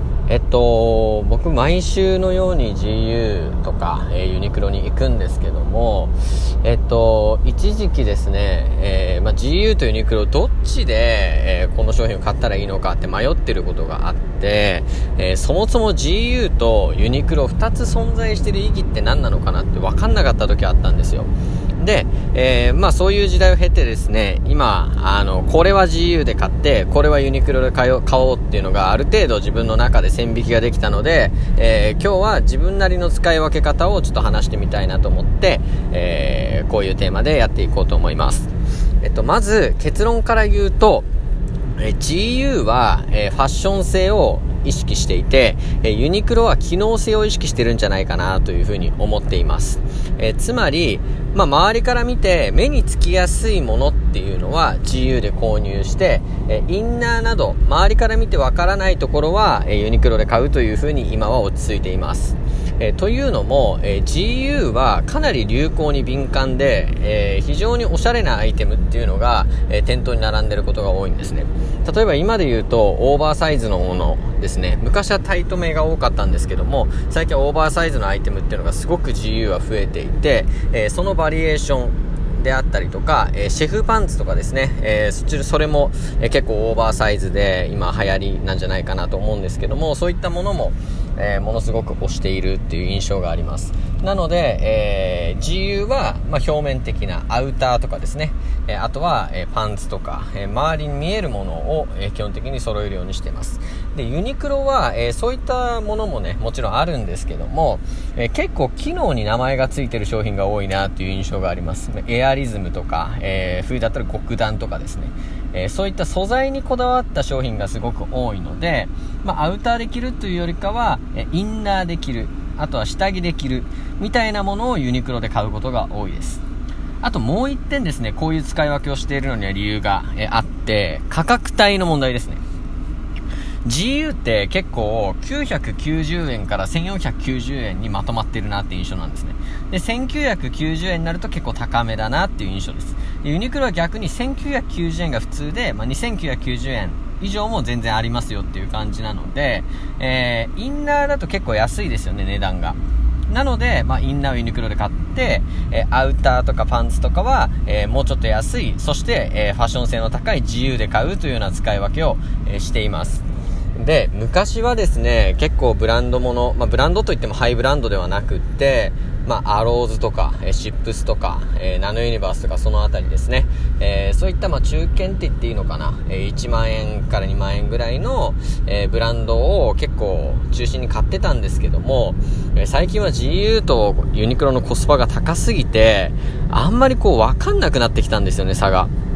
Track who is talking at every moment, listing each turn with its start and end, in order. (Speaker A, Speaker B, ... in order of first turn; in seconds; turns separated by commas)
Speaker A: 0.3-38.5, Speaker A: 39.0-41.0, Speaker A: 41.8-126.4, Speaker A: 127.0-132.4, Speaker A: 133.7-152.8, Speaker A: 153.3-163.2, Speaker A: 163.8-188.9